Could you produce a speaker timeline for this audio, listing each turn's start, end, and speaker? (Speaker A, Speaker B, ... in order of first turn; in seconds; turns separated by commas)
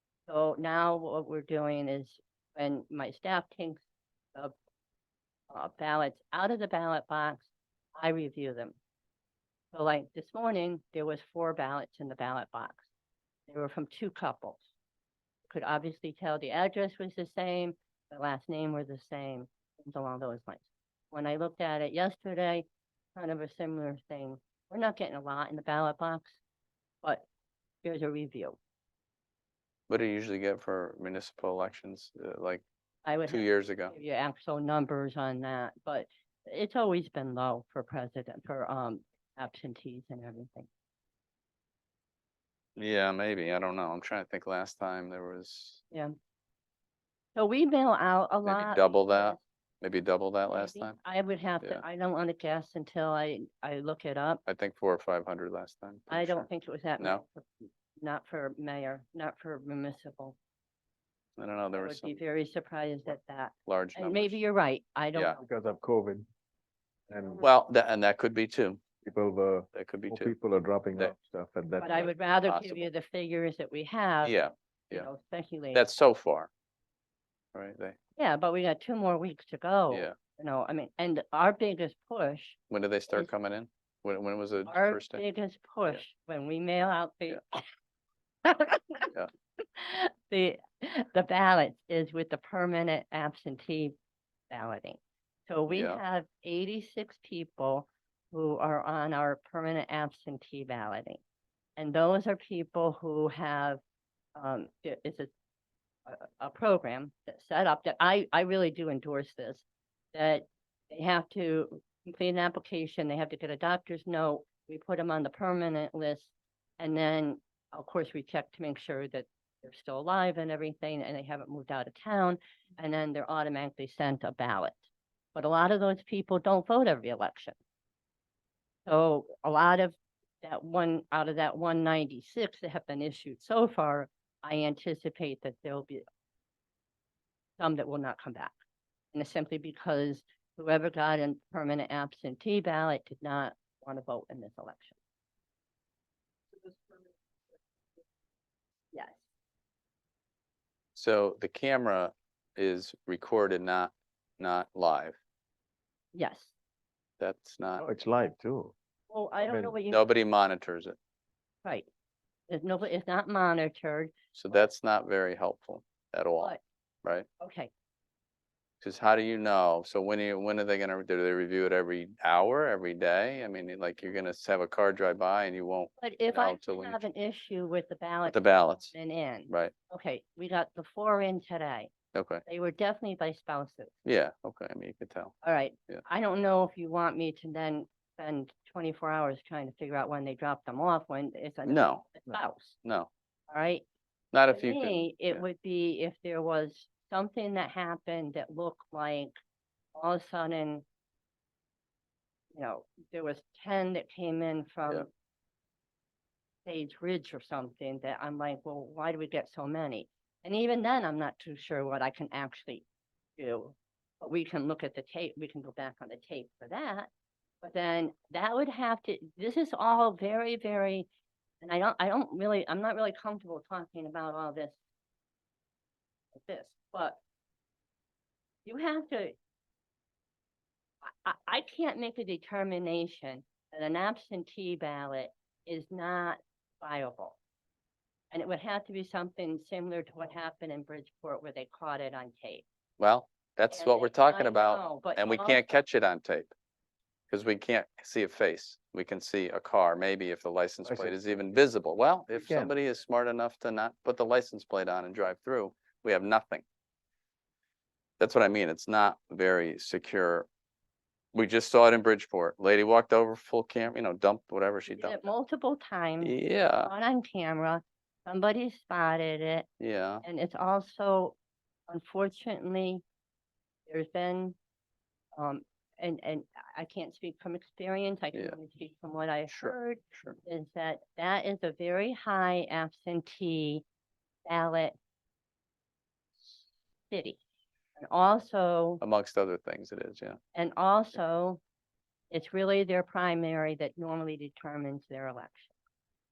Speaker A: 0.3-3.8, Speaker A: 5.5-8.8, Speaker A: 9.7-12.9, Speaker A: 13.5-14.7, Speaker A: 15.5-26.4, Speaker A: 27.8-28.6, Speaker B: 29.9-32.6, Speaker A: 33.0-40.7, Speaker B: 33.2-33.9, Speaker B: 42.8-45.8, Speaker A: 47.3-49.4, Speaker B: 48.4-51.0, Speaker A: 50.5-54.4, Speaker B: 54.5-56.5, Speaker A: 56.1-60.4, Speaker B: 61.4-62.2, Speaker A: 61.7-65.4, Speaker B: 63.6-64.4, Speaker C: 65.4-66.2, Speaker C: 67.1-67.4, Speaker B: 67.4-68.8, Speaker C: 69.0-72.1, Speaker B: 69.7-70.3, Speaker A: 71.8-74.3, Speaker B: 72.0-72.9, Speaker B: 74.2-75.1, Speaker A: 74.9-75.8, Speaker B: 75.7-76.5, Speaker B: 77.5-78.0, Speaker A: 78.2-82.6, Speaker B: 82.7-85.2, Speaker A: 84.7-87.6, Speaker A: 88.4-89.1, Speaker A: 89.6-93.9, Speaker A: 94.5-101.2, Speaker B: 95.7-96.0, Speaker A: 101.8-103.8, Speaker A: 104.3-105.3, Speaker A: 106.1-127.6, Speaker A: 128.8-136.0, Speaker A: 137.6-138.5, Speaker A: 139.1-144.9, Speaker A: 148.9-149.2, Speaker B: 150.9-155.2, Speaker A: 156.1-156.5, Speaker B: 157.2-157.8, Speaker C: 157.8-158.7, Speaker A: 159.1-160.0, Speaker C: 159.4-159.8, Speaker B: 159.9-160.9, Speaker A: 162.5-164.1, Speaker B: 164.3-167.2, Speaker A: 167.4-167.7, Speaker B: 168.8-177.0, Speaker A: 176.0-181.9, Speaker B: 178.2-178.9, Speaker B: 182.1-182.4, Speaker A: 182.4-183.9, Speaker B: 184.0-185.4, Speaker A: 185.4-192.8, Speaker B: 191.6-192.2, Speaker B: 192.8-193.1, Speaker A: 193.5-193.8, Speaker B: 194.3-195.4, Speaker A: 194.5-199.3, Speaker A: 199.9-200.8, Speaker A: 202.5-205.1, Speaker A: 206.6-212.8, Speaker A: 213.4-217.1, Speaker A: 217.6-221.1, Speaker A: 221.6-224.8, Speaker A: 226.3-227.2, Speaker A: 228.6-229.3, Speaker A: 231.0-237.4, Speaker A: 238.3-242.6, Speaker B: 243.0-246.5, Speaker A: 243.7-245.6, Speaker B: 247.3-256.6, Speaker C: 250.8-251.1, Speaker C: 252.3-252.7, Speaker B: 258.2-260.5, Speaker B: 261.3-265.2, Speaker A: 264.9-269.7, Speaker B: 266.2-266.9, Speaker B: 269.8-270.2, Speaker A: 270.2-271.4, Speaker A: 271.9-273.0, Speaker A: 273.9-274.6, Speaker A: 275.4-283.8, Speaker B: 279.5-280.4, Speaker A: 284.4-284.9, Speaker A: 287.1-287.4, Speaker A: 287.9-289.0, Speaker B: 289.0-290.4, Speaker A: 290.5-291.6, Speaker A: 292.3-295.7